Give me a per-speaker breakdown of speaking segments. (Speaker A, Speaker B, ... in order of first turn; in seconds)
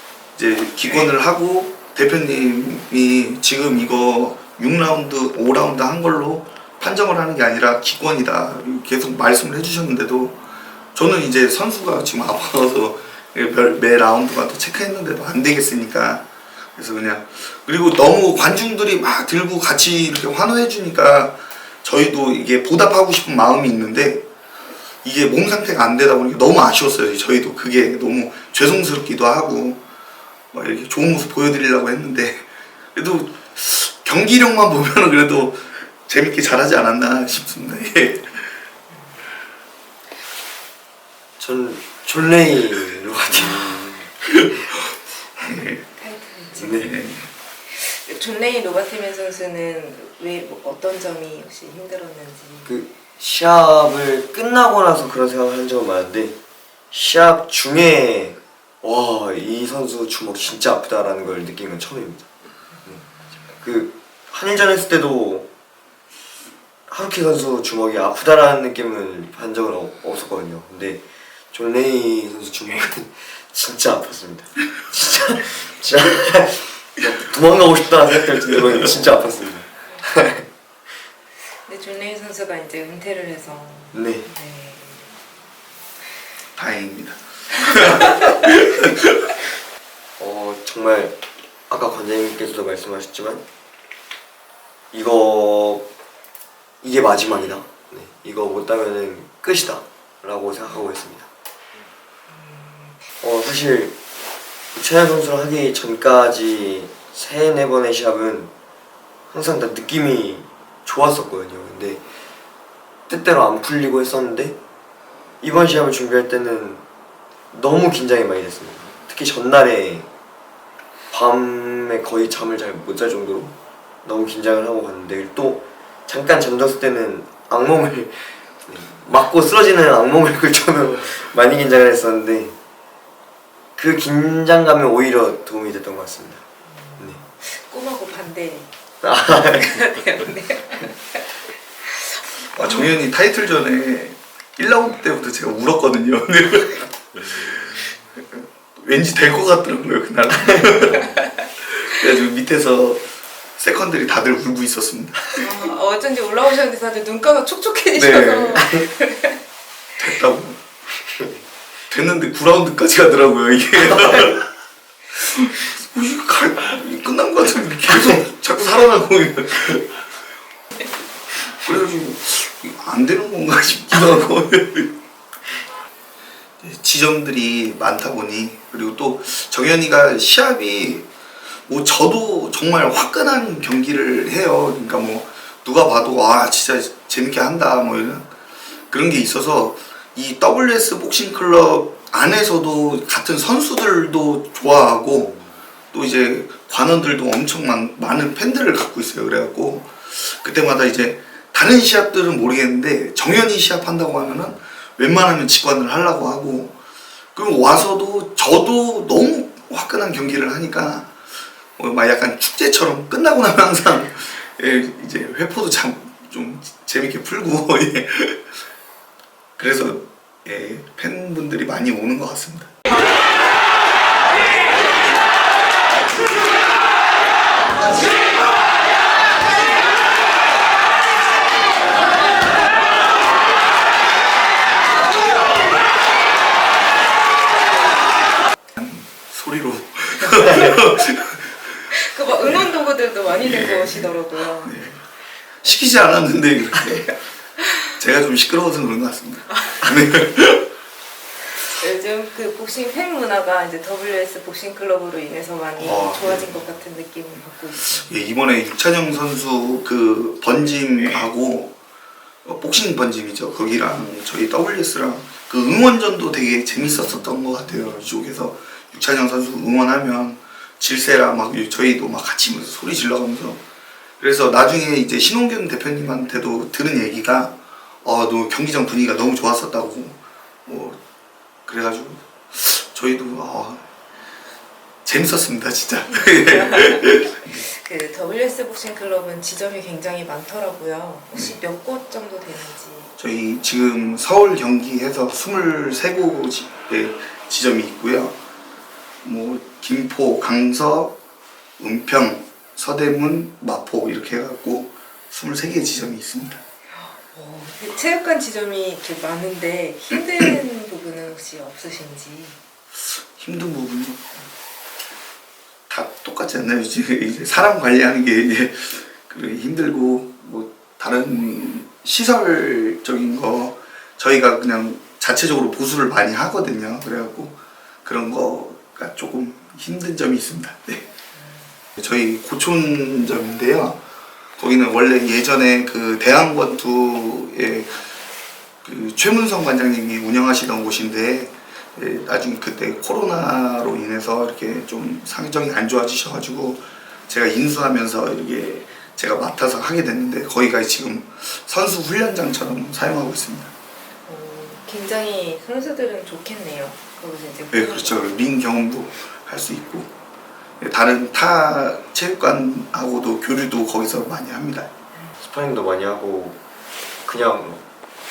Speaker A: 0.3-10.4, 10.9-24.2, 25.0-29.8, 30.5-38.4, 44.2-45.8, 46.8-47.3, 86.5-89.3, 142.6-151.1, 151.7-153.0, 153.6-155.5, 160.0-160.6, 161.9-164.4, 165.2-169.9, 171.5-174.9, 176.6-181.1, 181.7-188.3, 188.9-195.4, 195.9-206.7, 207.3-211.1, 211.8-218.4, 219.6-222.7, 238.8-241.8, 243.3-245.0, 245.6-247.1, 248.0-250.7, 255.8-256.6, 257.9-261.7, 262.4-273.6, 274.2-281.0, 281.6-283.8, 285.0-287.6, 293.2-298.3, 299.2-301.1, 301.8-306.6, 313.1-314.4, 315.9-331.0, 331.9-334.0, 334.6-338.0, 338.8-353.7, 357.7-360.1, 360.8-364.9
Speaker B: 41.4-44.0, 46.6-46.9, 52.6-56.4, 56.9-62.3, 63.6-65.5, 66.9-71.0, 71.5-80.5, 83.9-84.2, 90.2-91.2, 91.7-93.4, 94.9-95.8, 96.8-101.3, 103.2-104.0, 104.7-108.5, 109.3-112.0, 113.1-114.5, 115.4-116.8, 117.5-120.1, 121.1-132.6, 133.8-136.4, 139.0-139.8, 150.3-150.7, 157.9-158.9, 161.1-161.4, 365.4-366.6, 367.2-367.8
Speaker C: 45.9-46.9, 47.6-52.7, 81.7-85.1, 87.7-88.3, 102.3-103.0, 136.8-138.7, 139.3-141.2, 141.8-142.9, 151.0-151.3, 155.3-159.4, 241.9-244.8, 249.5-249.9, 251.6-258.1, 286.3-293.1, 306.9-312.6, 354.2-358.4